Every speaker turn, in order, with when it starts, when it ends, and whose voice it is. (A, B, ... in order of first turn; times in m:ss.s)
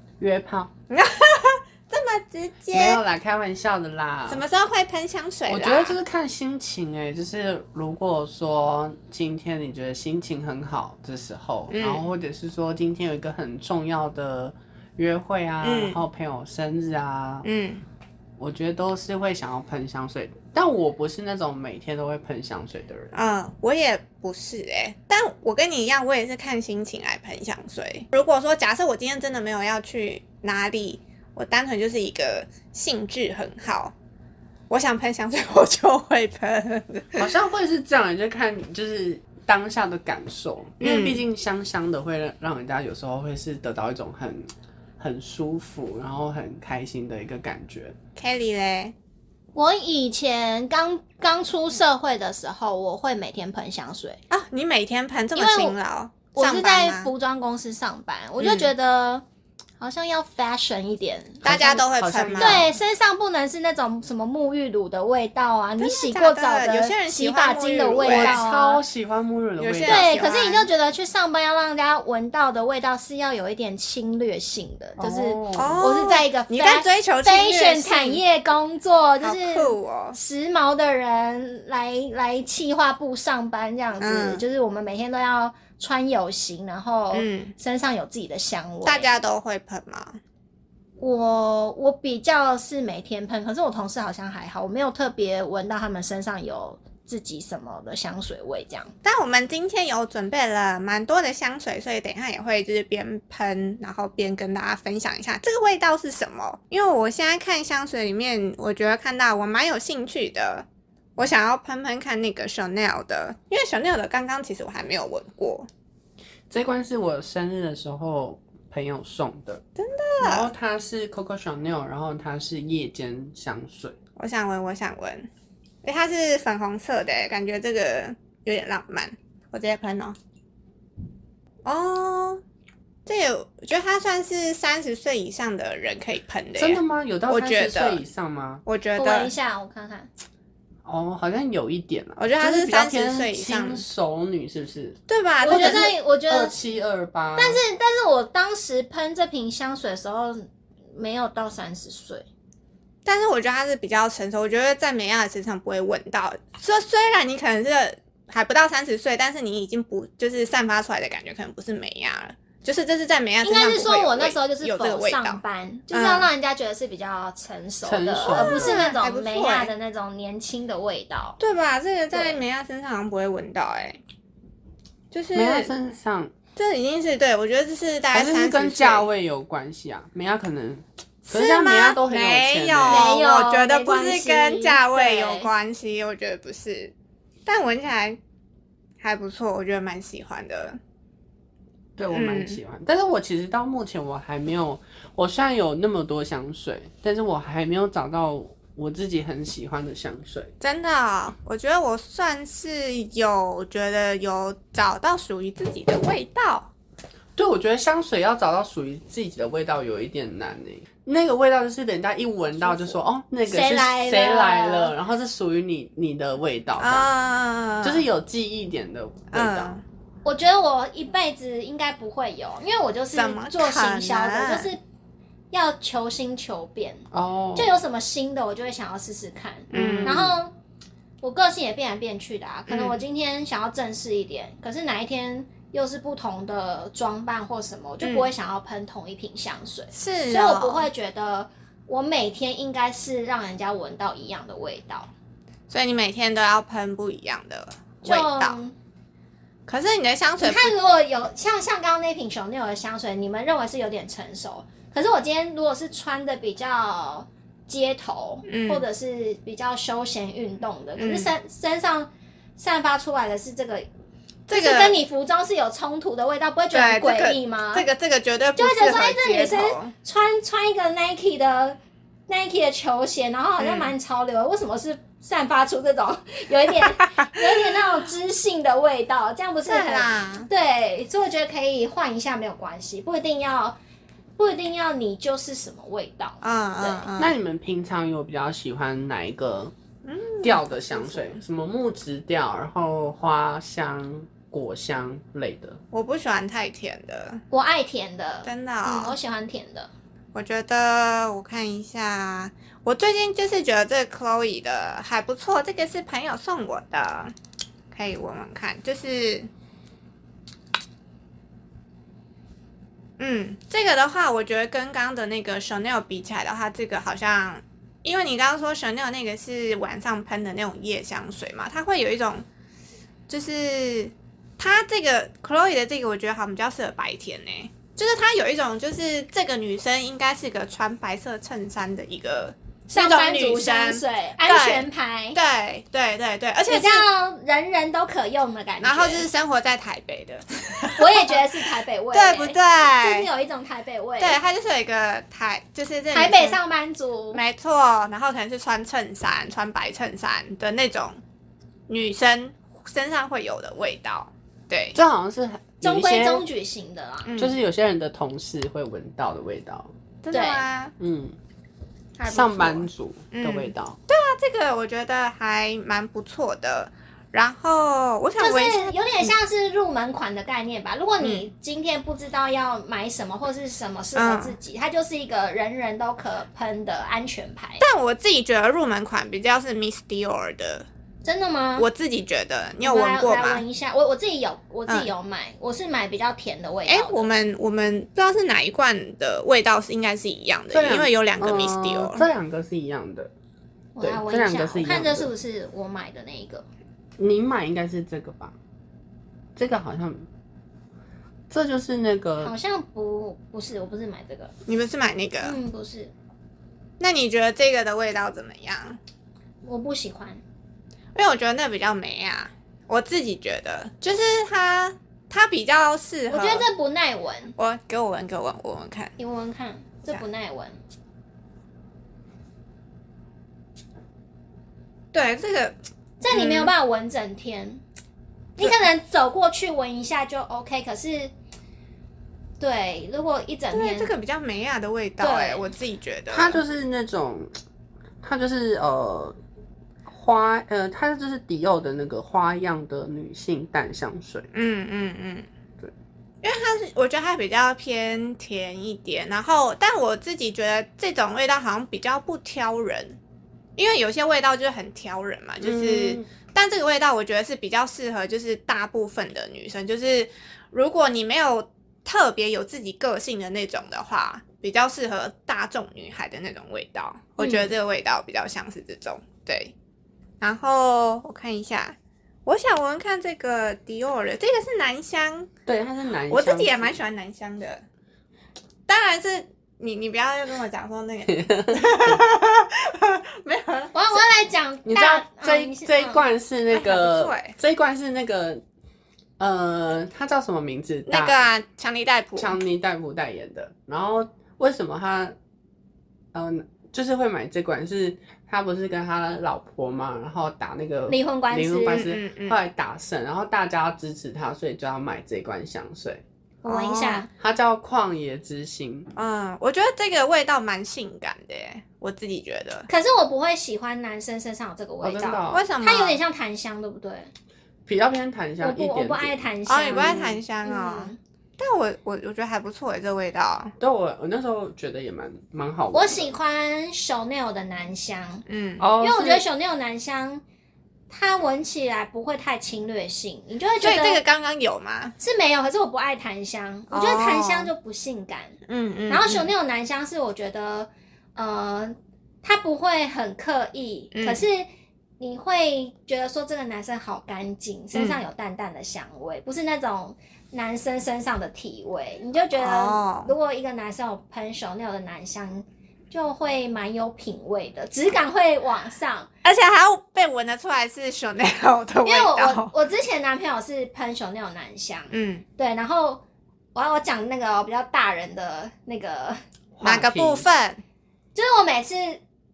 0:00.2-0:00.7 A
0:00.9-0:03.0 B
0:02.7-0:04.4 A
0:04.3-0:06.0 B
0:05.5-0:17.5 A
0:11.7-0:12.0 B
0:15.6-0:16.0 B
0:17.4-0:17.8 B
0:18.4-0:23.1 A
0:23.1-0:33.9 B
0:34.7-0:37.3 B
0:37.2-0:48.0 A
0:40.8-0:41.2 B
0:48.2-0:48.9 B
0:49.5-0:54.2 C
0:54.3-0:57.1 B
0:55.4-0:55.8 C
0:56.3-0:59.2 C
0:58.4-0:58.7 B
0:59.8-1:01.8 C
1:01.4-1:02.7 A
1:01.4-1:02.7 B
1:02.4-1:08.8 C
1:05.8-1:08.4 B
1:08.0-1:10.1 A
1:09.6-1:10.7 B
1:09.8-1:29.1 C
1:15.0-1:15.8 A
1:15.5-1:18.2 B
1:19.2-1:20.2 B
1:24.0-1:24.4 B
1:27.1-1:27.5 B
1:28.8-1:30.2 B
1:31.0-1:38.9 C
1:39.0-1:50.6 B
1:51.2-1:55.7 B
1:56.5-1:59.6 A
1:59.8-2:00.5 B
2:00.2-2:04.0 A
2:04.2-2:05.3 B
2:05.8-2:10.2 B
2:11.6-2:12.4 B
2:13.0-2:18.0 B
2:16.6-2:18.6 A
2:18.6-2:19.3 B
2:19.0-2:20.1 C
2:20.8-2:27.6 A
2:22.2-2:23.8 B
2:25.1-2:26.0 B
2:25.4-2:26.6 C
2:27.4-2:32.2 C
2:33.0-2:46.3 B
2:43.4-2:51.4 C
2:47.8-2:48.8 A
2:48.2-2:49.7 B
2:51.4-2:54.0 B
2:52.1-2:52.4 C
2:55.1-2:55.7 B
2:55.3-2:56.3 A
2:56.6-2:59.1 B
2:58.1-3:03.1 A
3:01.2-3:06.9 B
3:02.8-3:05.5 C
3:07.4-3:08.2 B
3:09.0-3:10.8 B
3:12.0-3:20.5 A
3:12.1-3:12.6 B
3:20.6-3:26.7 B
3:27.4-3:37.1 A
3:33.5-3:34.9 C
3:36.8-3:38.0 B
3:37.8-3:39.7 A
3:39.3-3:39.8 B
3:40.2-3:44.8 C
3:43.1-3:44.7 B
3:45.5-3:50.5 C
3:47.1-3:47.7 A
3:49.7-3:50.2 B
3:49.7-3:50.4 A
3:51.2-4:05.1 C
3:52.7-3:53.0 B
3:58.0-3:58.3 B
3:59.9-4:00.9 B
4:05.7-4:08.6 B
4:08.0-4:08.7 C
4:09.7-4:10.7 B
4:10.4-4:23.9 C
4:18.4-4:18.8 B
4:21.0-4:21.3 B
4:24.5-4:25.0 B
4:24.5-4:27.9 C
4:26.7-4:29.9 B
4:28.6-4:43.8 C
4:33.6-4:33.9 B
4:39.6-4:40.5 B
4:44.4-4:47.0 C
4:46.4-4:47.3 B
4:47.2-4:49.7 A
4:50.0-4:51.4 B
4:50.4-4:55.8 A
4:55.9-4:57.4 B
4:57.5-4:59.9 C
4:58.4-4:59.2 B
5:00.3-5:07.3 B
5:07.9-5:09.5 B
5:13.2-5:22.4 B
5:23.3-5:37.0 B
5:32.9-5:35.4 C
5:36.7-5:39.2 C
5:38.8-5:41.4 B
5:40.9-5:44.4 C
5:42.1-5:43.3 B
5:44.2-5:46.6 B
5:46.1-5:47.4 C
5:47.3-5:51.2 B
5:51.9-5:55.0 B
5:54.9-5:56.4 A
5:55.8-5:57.3 C
5:57.2-5:57.6 B
5:57.4-5:59.9 A
6:00.2-6:00.9 B
6:00.3-6:00.6 C
6:01.0-6:01.4 A
6:02.2-6:09.3 B
6:02.2-6:04.0 A
6:08.4-6:17.8 C
6:11.2-6:11.4 B
6:14.2-6:14.6 B
6:17.8-6:20.8 B
6:21.2-6:21.9 C
6:21.8-6:23.6 B
6:22.8-6:27.2 C
6:26.9-6:32.3 B
6:30.7-6:33.3 A
6:33.9-6:36.6 C
6:34.0-6:35.3 A
6:37.2-6:38.6 A
6:39.6-6:40.3 A
6:41.5-6:42.5 A
6:42.4-6:44.5 C
6:44.7-6:45.6 B
6:45.4-6:46.1 C
6:47.0-6:49.0 B
6:49.6-6:50.4 C
6:51.1-6:56.7 B
6:56.3-6:57.6 C
6:57.6-6:59.1 B
6:59.2-7:00.8 C
7:05.1-7:05.8 B
7:06.2-7:07.8 C
7:06.3-7:06.7 B
7:08.6-7:11.3 C
7:12.6-7:14.1 C
7:13.7-7:16.6 B
7:15.2-7:15.7 C
7:16.3-7:17.5 A
7:18.2-7:19.4 A
7:20.1-7:24.5 A
7:24.5-7:25.5 B
7:26.4-7:33.2 B
7:33.8-7:49.7 B
7:35.6-7:36.2 A
7:47.4-7:47.7 C
7:50.4-7:55.5 B
7:55.6-7:57.0 A
7:56.3-7:57.8 B
7:58.9-8:04.2 B
8:01.3-8:02.2 A
8:03.9-8:06.2 C
8:04.8-8:08.6 A
8:06.7-8:07.6 B
8:09.4-8:11.4 A
8:11.1-8:12.6 B
8:12.4-8:15.4 A
8:16.3-8:26.2 A
8:21.1-8:22.1 C
8:21.9-8:22.6 B
8:26.6-8:27.3 C
8:26.6-8:27.2 B
8:27.4-8:29.1 A
8:29.1-8:32.9 B
8:32.9-8:37.3 C
8:35.0-8:35.7 A
8:35.5-8:36.2 B
8:37.8-8:40.3 A
8:38.6-8:41.2 C
8:39.6-8:43.7 B
8:43.8-8:46.3 A
8:45.9-8:48.4 C
8:48.5-8:48.8 B
8:48.8-8:49.4 A
8:49.0-8:50.4 C
8:51.1-8:54.2 C
8:53.8-8:55.2 B
8:55.2-8:58.6 C
8:56.9-8:57.7 B
8:58.7-8:59.5 B
8:59.1-9:04.7 C
9:04.1-9:04.4 B
9:05.2-9:19.3 C
9:07.9-9:08.2 B
9:12.6-9:13.3 B
9:19.4-9:22.7 B
9:22.0-9:26.2 C
9:25.1-9:25.4 B
9:26.7-9:29.4 C
9:29.8-9:30.4 A
9:29.8-9:30.8 B
9:31.3-9:32.2 C